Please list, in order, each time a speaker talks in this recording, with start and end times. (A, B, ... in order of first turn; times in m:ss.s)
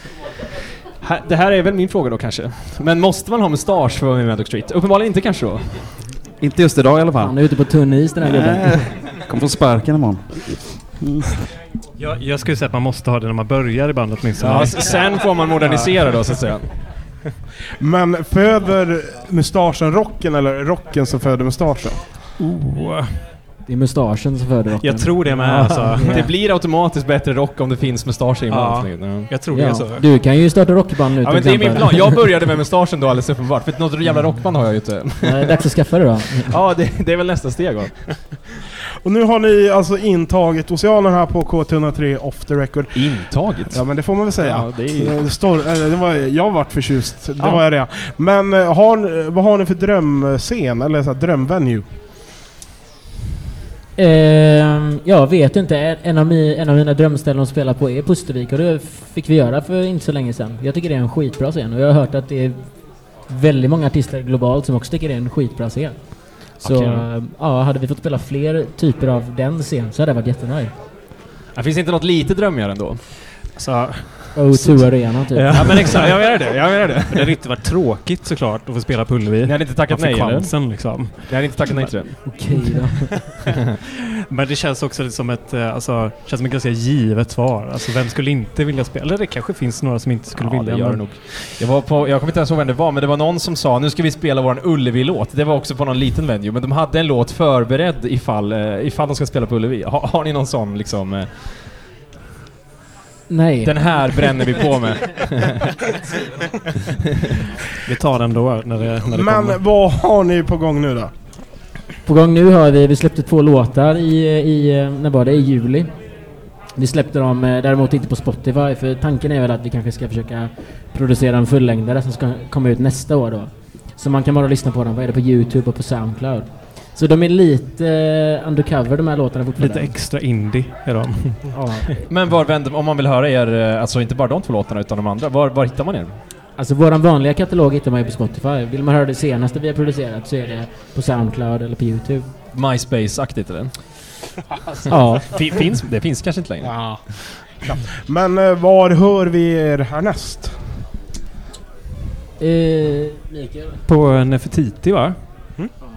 0:01.0-0:06.0 A
0:06.4-0:07.3 B
0:07.2-0:08.9 C
0:08.2-0:11.4 B
0:12.0-0:14.9 D
0:14.4-0:16.7 A
0:15.6-0:15.9 D
0:17.8-0:22.0 E
0:22.4-0:23.2 D
0:23.7-0:26.3 C
0:24.8-0:26.3 D
0:26.0-0:29.3 A
0:28.5-0:30.0 D
0:29.5-0:32.2 C
0:31.2-0:35.6 A
0:35.2-0:36.5 C
0:36.4-0:38.4 A
0:39.0-0:51.8 E
0:42.9-0:45.2 A
0:54.0-1:02.6 C
1:03.3-1:10.7 C
1:06.6-1:07.1 A
1:11.5-1:13.0 A
1:13.6-1:14.4 D
1:14.3-1:15.6 C
1:14.5-1:17.4 A
1:15.5-1:16.2 D
1:17.1-1:21.8 D
1:19.4-1:22.4 A
1:22.2-1:23.1 C
1:24.3-1:31.1 D
1:30.4-1:41.5 A
1:43.3-1:43.8 C
1:43.6-1:45.8 A
1:47.8-1:49.6 D
1:49.0-1:51.1 E
1:52.0-1:55.9 C
1:56.8-2:09.9 C
2:09.6-2:11.9 D
2:11.5-2:11.9 C
2:12.1-2:16.2 A
2:16.6-2:22.3 C
2:22.5-2:23.8 A
2:24.9-2:25.2 C
2:25.3-2:26.7 A
2:26.6-2:30.6 E
2:32.4-2:33.8 C
2:33.9-2:35.2 D